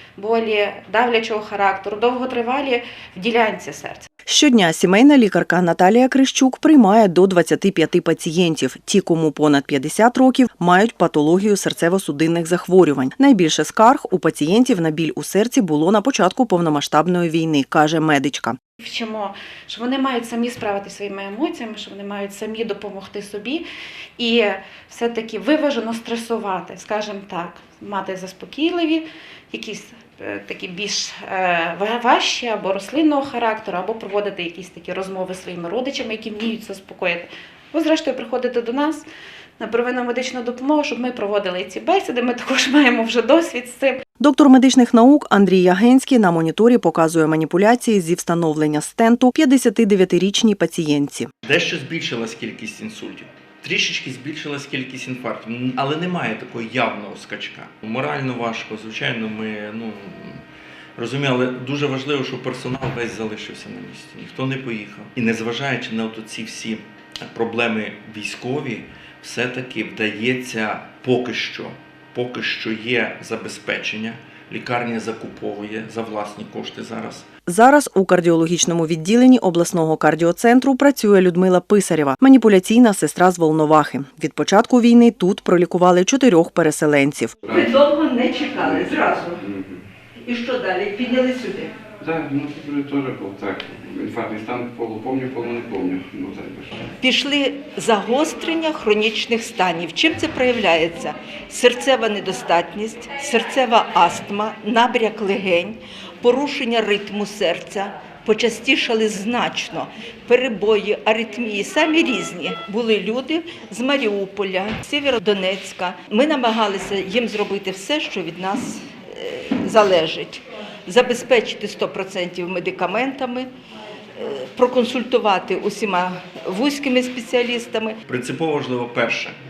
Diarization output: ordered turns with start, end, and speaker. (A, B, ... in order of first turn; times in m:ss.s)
0:00.2-0:04.1 A
0:04.3-0:18.6 B
0:18.8-0:23.6 A
0:24.2-0:39.1 A
0:39.6-0:44.0 A
0:44.2-0:51.3 B
0:51.4-1:00.4 C
1:01.0-1:17.3 C
1:17.4-1:27.4 B
1:27.4-1:27.8 D
1:27.5-1:29.4 E
1:28.6-1:29.8 D
1:30.2-1:31.7 E
1:32.0-1:36.9 D
1:37.0-2:03.5 E
2:04.1-2:08.0 E
2:08.0-2:09.3 C